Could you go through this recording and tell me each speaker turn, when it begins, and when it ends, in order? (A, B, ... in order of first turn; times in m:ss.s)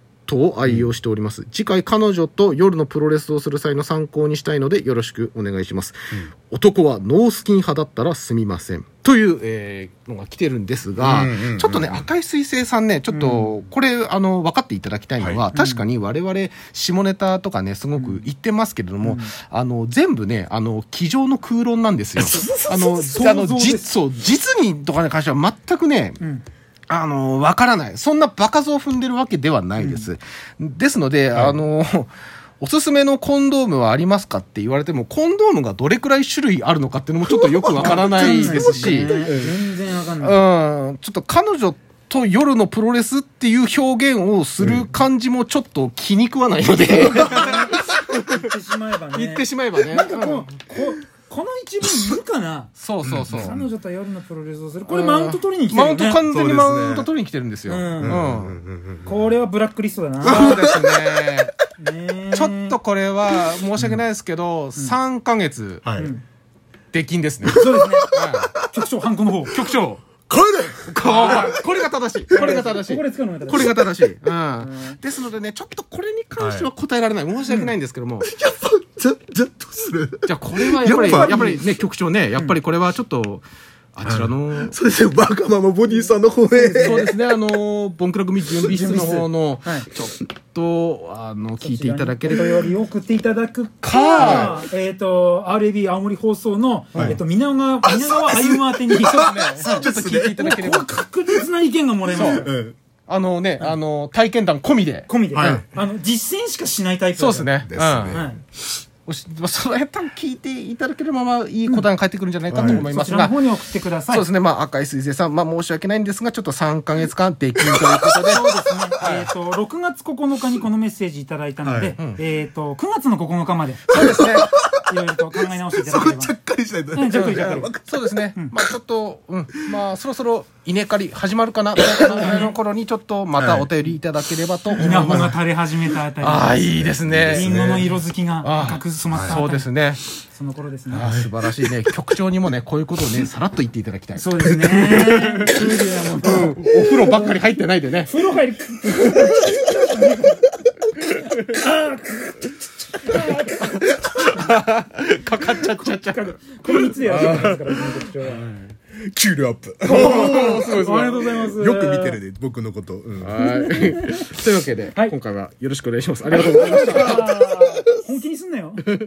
0:00.3-0:26.2 A
0:11.0-0:12.0 B
0:13.1-0:13.5 C
0:15.2-0:15.5 B
0:15.5-0:15.9 C
0:18.0-0:18.3 C
0:19.0-0:19.4 C
0:22.2-0:23.9 C
0:26.9-0:39.1 A
0:29.8-0:30.1 C
0:37.2-0:39.5 B
0:38.1-0:40.4 C
0:40.2-0:48.4 A
0:44.6-0:44.9 B
0:47.3-0:56.2 C
0:49.1-0:50.6 A
0:52.8-0:53.6 A
0:53.0-0:53.6 B
0:54.9-0:58.6 A
0:56.2-0:57.1 B
0:57.7-0:58.2 C
0:58.0-0:59.1 B
0:59.0-1:00.8 C
1:00.2-1:01.5 A
1:00.5-1:01.2 B
1:01.8-1:02.8 C
1:02.3-1:05.9 A
1:03.8-1:04.0 B
1:05.8-1:06.1 B
1:05.9-1:06.2 C
1:06.9-1:07.6 A
1:07.4-1:08.4 B
1:07.6-1:09.7 C
1:08.2-1:08.5 A
1:09.6-1:10.0 A
1:10.3-1:11.7 B
1:10.8-1:18.3 A
1:11.0-1:11.5 C
1:12.3-1:12.6 B
1:12.3-1:15.0 C
1:16.4-1:16.7 B
1:17.5-1:17.7 C
1:18.2-1:21.7 B
1:20.2-1:24.8 A
1:21.1-1:21.6 C
1:22.3-1:22.6 C
1:24.0-1:27.1 B
1:25.9-1:27.1 C
1:26.8-1:32.3 A
1:28.5-1:28.8 B
1:28.6-1:29.9 C
1:31.6-1:42.5 C
1:32.3-1:32.7 B
1:33.8-1:34.5 A
1:34.2-1:34.6 B
1:36.9-1:37.2 B
1:37.8-1:40.6 B
1:39.3-1:41.0 A
1:42.1-1:42.8 B
1:42.2-1:42.4 A
1:43.1-1:45.1 A
1:45.1-1:48.4 C
1:45.3-1:45.6 B
1:47.2-1:48.2 A
1:47.6-1:48.2 B
1:49.0-1:53.4 A
1:51.6-1:51.9 C
1:52.5-1:52.8 B
1:52.6-1:54.3 C
1:54.1-1:58.4 A
1:57.6-1:58.0 B
1:58.2-2:06.3 C
1:59.0-1:59.3 A
2:01.6-2:01.9 B
2:03.9-2:04.8 B
2:03.9-2:04.5 A
2:05.5-2:08.7 B
2:06.9-2:07.8 C
2:07.1-2:15.3 A
2:08.3-2:08.6 C
2:09.5-2:09.8 B
2:11.8-2:12.1 B
2:12.1-2:12.6 C
2:13.4-2:13.7 B
2:14.7-2:19.7 C
2:14.8-2:15.2 B
2:16.2-2:17.9 A
2:16.8-2:17.9 B
2:18.4-2:18.8 A
2:19.1-2:19.4 B
2:19.4-2:20.0 A
2:20.3-2:21.3 C
2:20.9-2:25.6 A
2:24.1-2:30.4 C
2:26.2-2:28.1 A
2:31.3-2:34.6 C
2:33.8-2:36.2 A
2:35.3-2:38.5 C
2:37.0-2:37.4 B
2:37.2-2:37.6 A
2:38.2-2:40.7 B
2:39.8-2:42.2 C
2:39.9-2:41.4 A
2:41.4-2:43.3 B
2:43.2-2:47.3 A
2:43.4-2:44.4 C
2:44.9-2:45.1 C
2:46.3-2:48.8 C